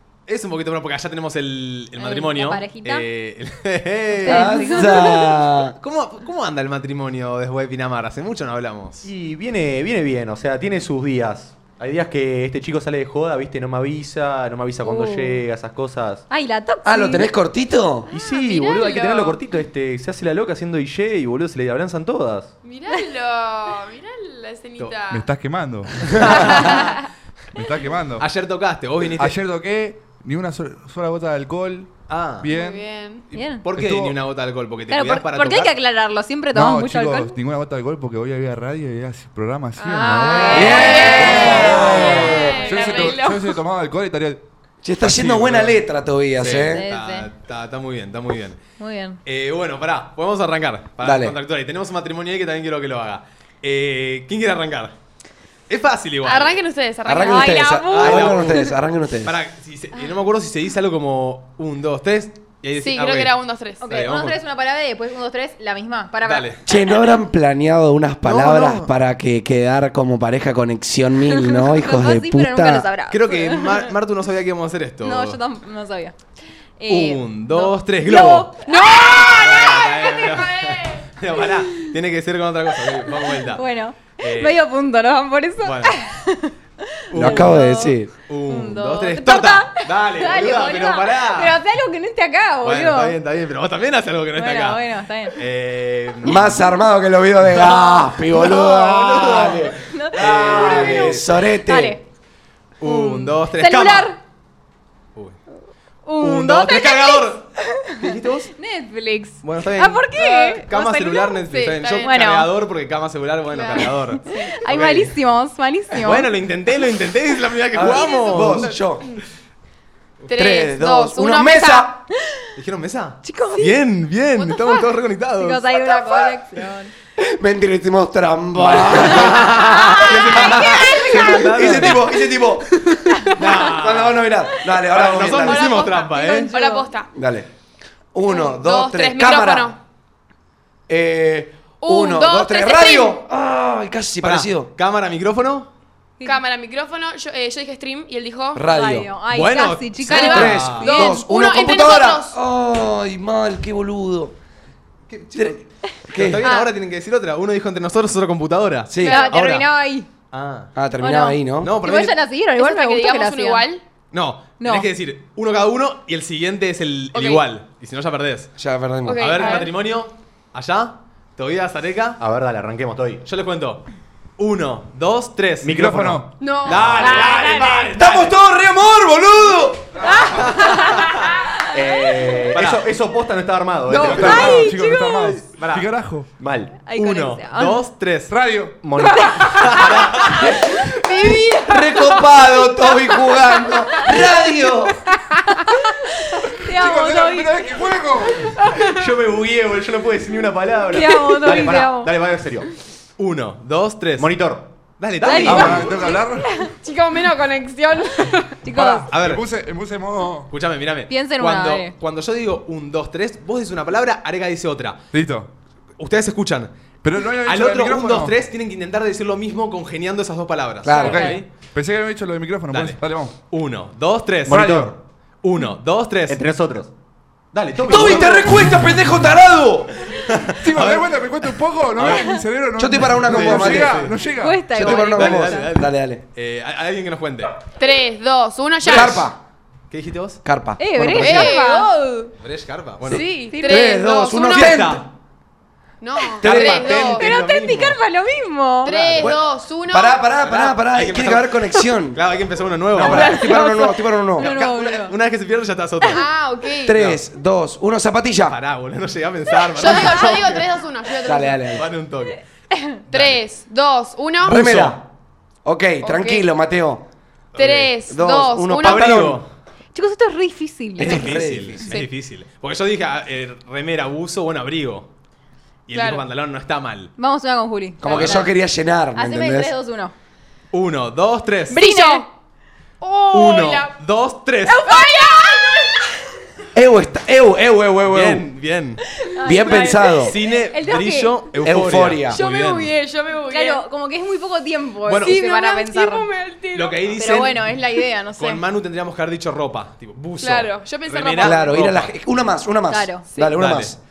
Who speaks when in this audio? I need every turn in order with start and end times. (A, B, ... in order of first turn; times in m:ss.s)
0:00.3-0:04.9 A
0:02.0-0:03.1 B
0:04.2-0:05.4 B
0:04.2-0:05.7 C
0:05.8-0:09.1 A
0:09.0-0:16.2 D
0:14.8-0:15.4 B
0:16.3-0:17.3 B
0:16.8-0:18.1 C
0:18.1-0:19.4 E
0:18.1-0:22.5 D
0:22.6-0:25.3 E
0:25.1-0:26.8 F
0:26.2-0:26.9 E
0:27.5-0:28.3 F
0:28.2-0:29.4 A
0:29.2-0:32.9 F
0:32.1-0:32.5 A
0:32.5-0:33.2 E
0:33.3-0:35.7 A
0:33.3-0:33.6 B
0:33.7-0:34.2 F
0:34.9-0:37.4 B
0:36.5-0:44.4 F
0:39.8-0:43.6 E
0:39.9-0:41.7 B
0:40.5-0:42.6 C
0:44.8-0:46.8 C
0:45.0-0:45.8 A
0:46.4-0:48.6 A
0:46.7-0:47.3 B
0:48.8-0:49.2 B
0:49.2-0:54.9 A
0:51.0-0:51.4 C
0:55.7-0:56.6 A
0:56.2-0:57.8 E
0:57.0-0:59.3 C
0:57.2-0:58.7 B
0:57.9-0:58.6 A
0:59.2-1:03.3 A
1:02.8-1:03.8 E
1:03.8-1:06.6 B
1:03.9-1:04.4 A
1:06.2-1:06.6 A
1:06.7-1:12.9 C
1:08.2-1:08.9 A
1:11.3-1:13.9 B
1:13.1-1:15.4 A
1:15.0-1:16.2 B
1:16.8-1:18.8 B
1:16.9-1:18.5 A
1:18.6-1:21.0 E
1:19.3-1:23.6 A
1:23.5-1:26.5 B
1:24.2-1:24.6 A
1:25.6-1:25.9 A
1:27.1-1:27.6 A
1:27.1-1:27.9 B
1:27.1-1:28.1 C
1:28.3-1:31.6 A
1:28.5-1:33.2 B
1:32.6-1:36.5 A
1:34.3-1:35.4 B
1:36.2-1:42.0 C
1:37.4-1:41.2 A
1:39.8-1:42.0 B
1:42.8-1:44.2 A
1:42.8-1:44.2 B
1:46.0-1:51.4 B
1:46.2-1:48.5 A
1:49.4-1:55.1 A
1:50.2-1:50.6 E
1:51.4-1:52.1 E
1:52.0-1:52.5 B
1:53.5-1:54.6 E
1:53.8-1:56.3 B
1:56.0-1:58.8 A
1:57.7-1:59.2 C
1:57.9-1:59.2 E
2:00.2-2:00.4 A
2:00.3-2:01.9 E
2:00.3-2:02.0 C
2:02.6-2:05.7 A
2:03.2-2:03.7 B
2:04.4-2:04.8 E
2:05.4-2:06.9 B
2:05.9-2:06.3 E
2:07.2-2:15.9 C
2:08.6-2:12.0 A
2:10.6-2:11.8 B
2:13.3-2:14.3 A
2:14.8-2:16.5 A
2:15.2-2:17.1 E
2:16.1-2:16.9 B
2:17.1-2:17.5 C
2:18.1-2:19.8 C
2:18.2-2:19.8 E
2:20.9-2:24.7 C
2:21.8-2:23.2 E
2:24.2-2:25.7 A
2:26.2-2:28.7 E
2:28.5-2:29.1 C
2:28.7-2:31.2 B
2:29.3-2:30.8 A
2:30.1-2:32.4 E
2:30.1-2:34.3 C
2:35.1-2:39.7 A
2:35.3-2:36.4 C
2:36.4-2:36.7 E
2:38.9-2:39.2 C
2:39.0-2:39.4 E
2:39.0-2:40.1 B
2:40.3-2:40.7 A
2:40.7-2:41.8 C
2:41.0-2:43.7 B
2:41.6-2:42.2 A
2:42.6-2:43.8 E
2:44.1-2:48.5 A
2:44.6-2:44.9 B
2:47.1-2:47.4 E
2:48.6-2:49.6 C
2:49.0-2:49.7 E
2:49.2-2:52.2 A
2:52.2-2:53.2 D
2:53.2-2:53.8 A
2:54.4-2:55.7 A
2:55.6-2:56.3 D
2:55.7-2:56.3 F
2:56.4-2:57.7 E
2:56.6-2:58.4 A
2:57.0-2:57.8 B
2:57.9-3:00.2 C
3:00.0-3:01.1 B
3:00.3-3:01.3 A
3:01.7-3:04.6 D
3:02.5-3:02.9 A
3:03.9-3:05.4 B
3:03.9-3:06.3 F
3:04.0-3:04.5 A
3:05.5-3:05.9 A
3:06.4-3:06.8 D
3:06.8-3:07.8 B
3:06.9-3:08.3 A
3:08.3-3:08.8 F
3:08.8-3:09.8 D
3:09.1-3:09.7 B
3:09.5-3:10.4 A
3:10.4-3:15.0 C
3:11.0-3:11.8 E
3:14.0-3:14.3 B
3:15.6-3:17.8 B
3:16.6-3:18.6 F
3:18.9-3:22.7 D
3:20.3-3:21.5 A
3:20.9-3:22.1 B
3:23.2-3:24.3 A
3:24.2-3:24.7 D
3:25.0-3:25.9 A
3:25.2-3:26.7 B
3:25.4-3:26.5 F
3:26.8-3:28.6 E
3:28.6-3:29.1 B
3:28.7-3:30.5 F
3:28.8-3:29.4 A
3:30.5-3:35.0 A
3:31.1-3:31.9 B
3:35.1-3:35.5 F
3:36.0-3:36.7 A
3:37.0-3:38.3 F
3:37.4-3:41.5 A
3:40.8-3:41.2 C
3:41.0-3:43.3 F
3:41.0-3:41.4 B
3:42.7-3:46.4 A
3:44.5-3:44.9 D
3:44.5-3:44.9 F
3:46.3-3:46.9 D
3:47.5-3:48.5 D
3:47.9-3:48.2 A
3:47.9-3:49.9 C
3:47.9-3:49.1 F
3:50.2-3:52.4 A
3:50.5-3:54.7 F
3:52.0-3:52.4 B
3:52.8-3:54.0 C
3:53.2-3:54.2 A
3:54.3-3:55.7 B
3:54.7-3:56.2 C
3:54.7-3:57.5 A
3:57.8-3:59.3 E
3:58.8-3:59.2 A
3:58.8-3:59.4 C
3:59.9-4:00.4 A
4:00.4-4:01.5 C
4:00.8-4:02.3 B
4:01.2-4:01.9 E
4:02.4-4:03.2 A
4:03.1-4:05.1 C
4:03.1-4:04.9 E
4:03.5-4:04.0 B
4:04.4-4:05.0 A
4:06.0-4:07.3 E
4:06.3-4:08.9 B
4:06.4-4:07.1 C
4:06.4-4:08.0 A
4:08.8-4:09.4 A
4:08.8-4:10.2 E
4:09.2-4:12.2 C
4:10.4-4:13.6 A
4:12.9-4:14.5 C
4:13.1-4:15.1 B
4:14.4-4:16.2 A
4:16.1-4:17.0 E
4:16.8-4:18.6 C
4:18.4-4:20.6 A
4:19.8-4:21.7 E
4:19.8-4:20.3 B
4:21.2-4:21.9 C
4:21.7-4:22.4 A
4:22.7-4:23.0 B
4:23.1-4:23.4 A
4:23.1-4:24.6 E
4:24.4-4:25.0 C
4:24.4-4:25.0 A
4:25.6-4:27.0 C
4:26.0-4:26.4 E
4:27.5-4:27.9 A
4:27.6-4:29.3 E
4:28.1-4:29.4 C
4:28.8-4:29.5 A
4:29.9-4:31.4 B
4:31.0-4:31.9 C
4:31.0-4:35.1 A
4:35.9-4:37.1 A
4:35.9-4:36.2 E
4:37.2-4:38.5 B
4:38.0-4:39.7 C
4:38.0-4:38.5 A
4:39.1-4:40.1 B
4:40.7-4:41.8 A
4:41.7-4:42.3 E
4:41.7-4:42.2 B
4:43.0-4:43.9 E
4:43.3-4:44.9 A
4:44.7-4:46.1 B
4:44.9-4:46.0 E
4:46.7-4:48.5 C
4:48.0-4:49.0 A
4:49.2-4:51.5 B
4:49.4-4:50.1 E
4:49.4-4:50.4 C
4:50.1-4:52.9 A
4:51.6-4:52.4 C
4:52.3-4:53.8 E
4:53.5-4:56.3 B
4:55.0-4:55.3 A
4:55.2-4:57.2 E
4:56.7-4:57.7 A
4:57.2-4:58.6 B
4:58.4-5:02.1 A
5:00.4-5:01.8 E
5:01.4-5:04.0 C
5:02.9-5:03.2 B
5:03.5-5:03.9 A